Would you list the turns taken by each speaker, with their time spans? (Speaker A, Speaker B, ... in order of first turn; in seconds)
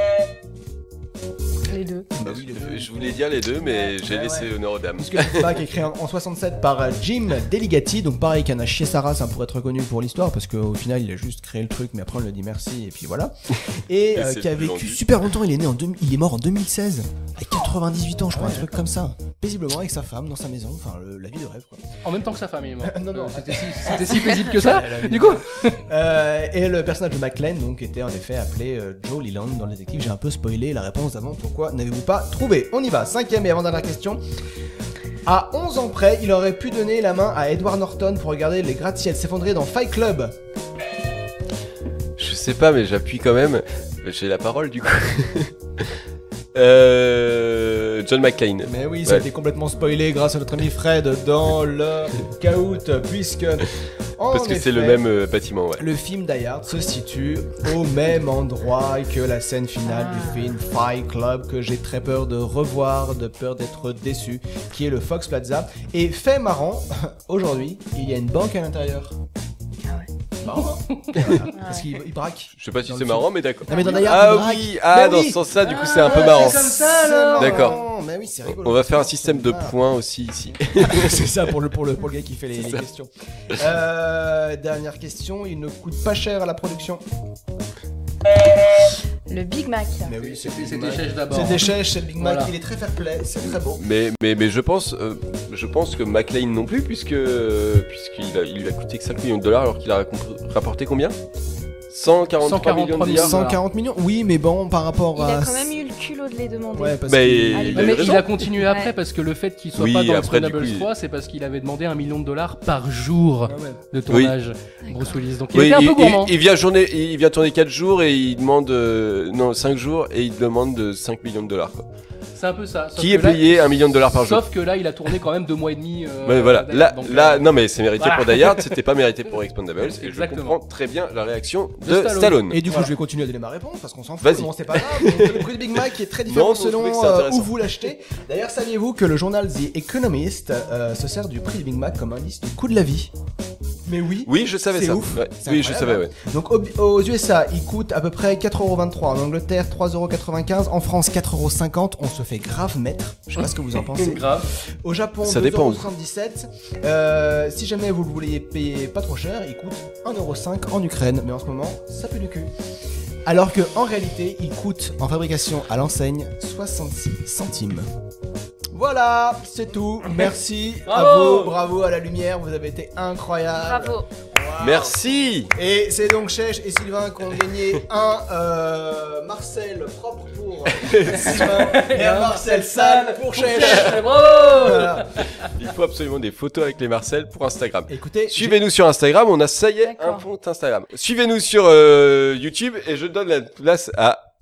Speaker A: 1.7-2.1, 59.9-60.5, 71.5-71.9, 73.7-74.2, 89.3-90.1, 105.2-108.9, 114.9-115.2, 173.6-174.1, 189.8-190.2
Speaker B: 2.1-21.9, 22.8-34.2, 35.3-40.4, 48.6-55.0, 55.8-69.2, 70.4-75.4, 76.1-79.8, 80.8-87.0, 90.0-93.8, 103.1-105.7, 106.7-108.0, 113.5-113.8, 132.5-143.1, 143.9-162.5, 163.3-167.9, 168.7-185.1, 187.9-188.6
Speaker C: 2.2-5.6, 14.1-15.0, 42.2-45.9, 46.5-49.2, 54.3-55.9, 71.2-71.5, 72.5-76.6, 77.4-77.8, 78.5-81.2, 82.6-82.8, 93.7-101.1, 101.9-103.4, 107.1-108.3, 109.8-110.9, 114.1-114.3, 115.5-121.9, 123.0-124.4, 126.3-132.6, 134.2-135.6, 136.3-137.5, 144.3-146.1, 155.2-155.9, 174.6-175.5, 180.8-181.4, 185.4-194.2
Speaker D: 18.4-18.7, 22.0-25.8, 75.6-77.8, 90.3-92.5, 102.4-103.6, 107.8-116.3, 122.4-123.6, 124.2-128.8, 129.8-130.6, 131.8-132.9, 153.4-154.5, 170.9-171.6, 181.1-185.1